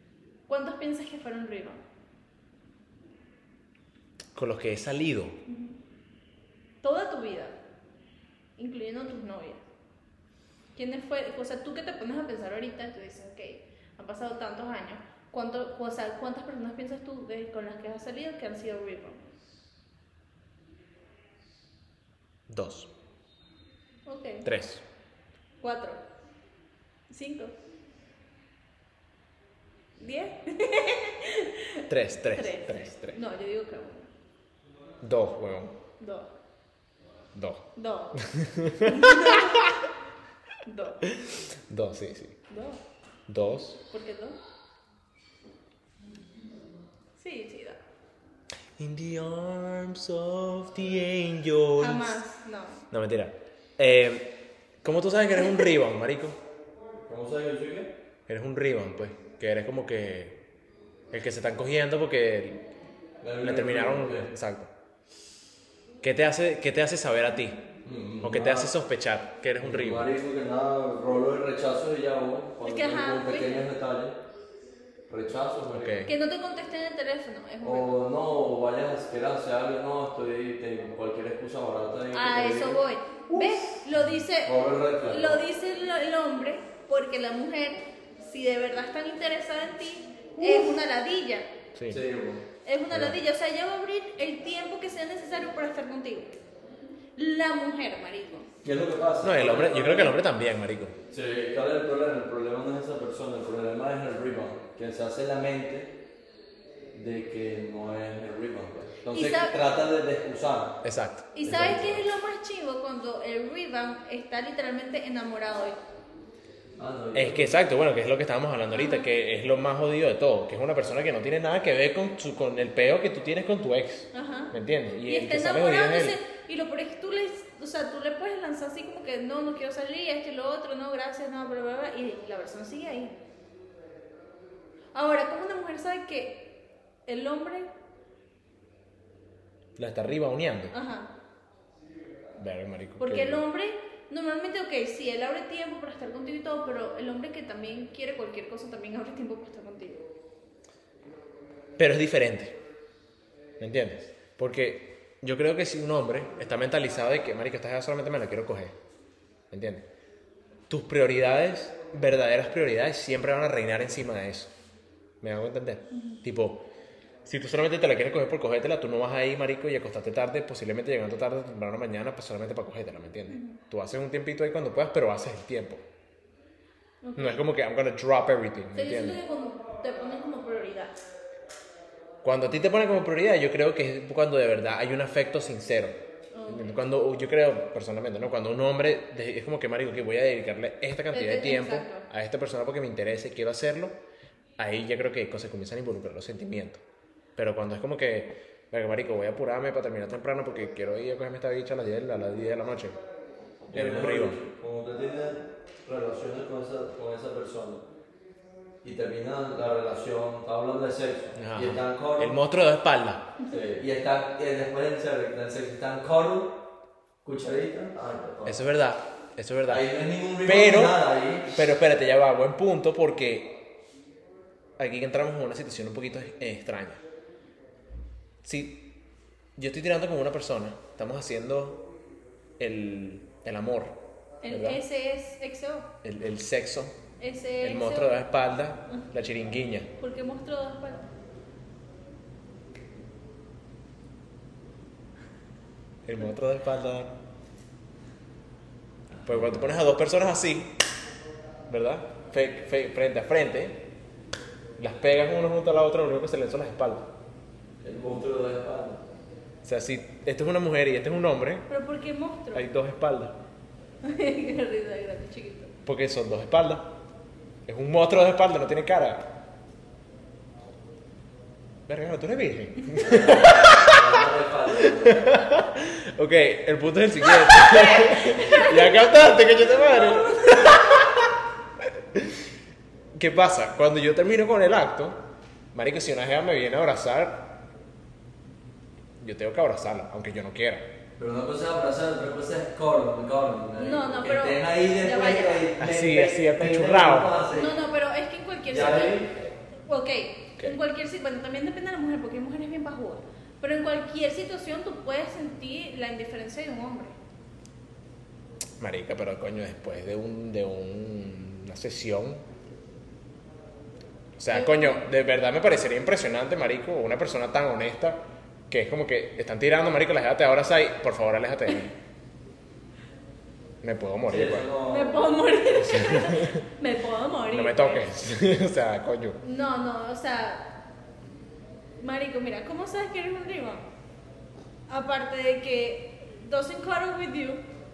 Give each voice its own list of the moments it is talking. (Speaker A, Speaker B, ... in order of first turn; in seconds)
Speaker A: 0.5-1.8, 5.5-5.8, 6.8-7.6, 8.6-9.6, 10.8-19.3, 24.1-24.5, 25.6-26.0, 27.1-27.6, 30.0-34.1, 36.0-36.3, 37.7-38.2, 38.8-39.8, 40.6-41.0, 42.5-42.8, 43.9-44.4, 47.2-47.8, 51.8-52.8, 72.6-73.6, 76.0-78.0, 82.1-91.5, 92.6-96.3, 97.2-98.5, 109.1-109.6, 111.3-115.8, 118.7-119.0, 124.1-133.1, 134.9-136.4, 137.1-137.7, 140.7-141.1, 143.0-150.1, 165.9-166.2, 173.3-173.6, 177.0-177.4, 178.7-180.9, 186.3-186.8, 191.1-192.1, 234.4-235.9, 237.2-238.2, 240.0-241.1, 261.7-262.7, 264.0-265.7, 277.4-281.1, 293.8-295.7, 297.5-307.1, 314.5-315.0, 324.8-328.0, 329.4-330.8, 332.0-333.9, 334.9-337.6
Speaker B: 4.3-5.4, 22.5-22.9, 24.4-24.8, 31.9-33.2, 35.0-35.8, 37.3-39.6, 41.2-42.4, 43.3-43.8, 48.8-52.2, 52.9-56.4, 58.3-60.4, 61.1-62.6, 63.4-64.7, 66.0-67.7, 68.2-70.1, 75.7-76.1, 91.7-92.0, 92.9-93.2, 99.2-100.9, 110.8-112.1, 117.1-126.2, 139.8-140.7, 142.3-143.4, 151.8-152.6, 153.6-158.8, 159.5-159.9, 160.7-164.5, 165.2-166.7, 167.2-175.8, 177.2-179.2, 182.2-194.0, 194.6-196.8, 197.3-203.0, 203.7-204.4, 211.3-213.3, 218.4-219.9, 220.4-223.6, 224.8-227.0, 228.4-228.9, 229.6-231.8, 232.6-234.8, 236.0-237.0, 237.6-239.9, 246.0-247.1, 249.2-250.7, 251.7-253.8, 254.8-257.1, 259.6-261.7, 262.5-263.4, 265.9-266.9, 267.6-269.3, 271.9-274.2, 274.8-282.4, 283.1-285.2, 285.7-287.6, 289.2-290.9, 295.8-297.4, 308.8-312.4, 314.4-321.9, 323.8-324.7, 325.7-326.7, 327.5-329.4
Speaker C: 57.1-57.9, 63.2-64.3, 67.8-68.7, 69.6-74.2, 75.1-76.0, 77.6-83.7, 84.4-85.4, 91.9-92.4, 98.6-100.2, 101.1-105.9, 106.9-110.8, 116.8-117.6, 203.7-207.8, 208.8-212.3, 213.5-216.5, 217.2-218.6, 219.7-221.6, 257.8-259.0, 273.0-275.3, 291.2-297.8, 298.7-299.3, 324.3-325.3